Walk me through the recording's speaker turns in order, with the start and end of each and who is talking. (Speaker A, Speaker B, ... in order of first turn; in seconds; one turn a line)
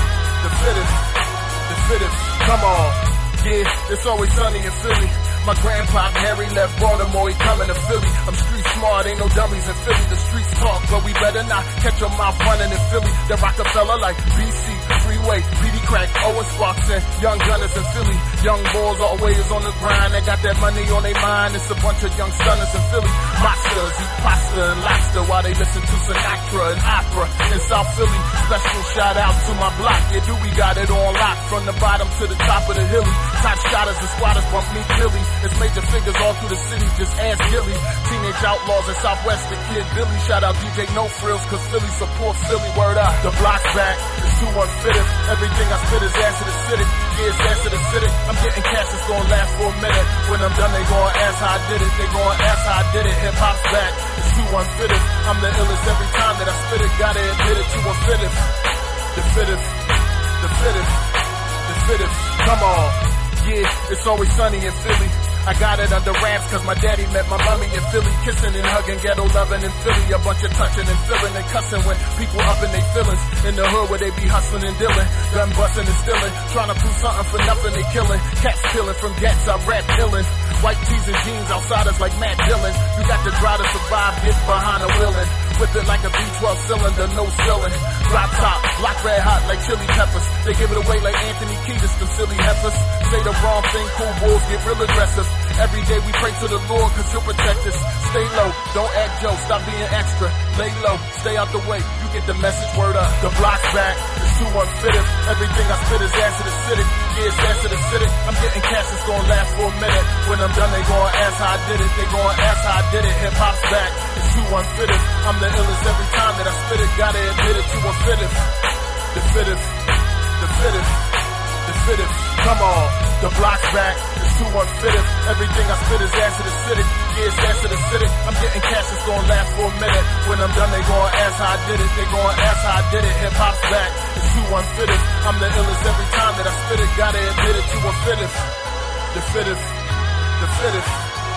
Speaker A: 0.4-1.1
Speaker A: 1.6-58.5
Speaker A: 59.1-61.1
Speaker A: 61.6-118.5
Speaker A: 119.1-119.8
Speaker A: 120.4-121.1
Speaker A: 121.6-138.5
Speaker A: 139.1-139.8
Speaker A: 140.4-141.1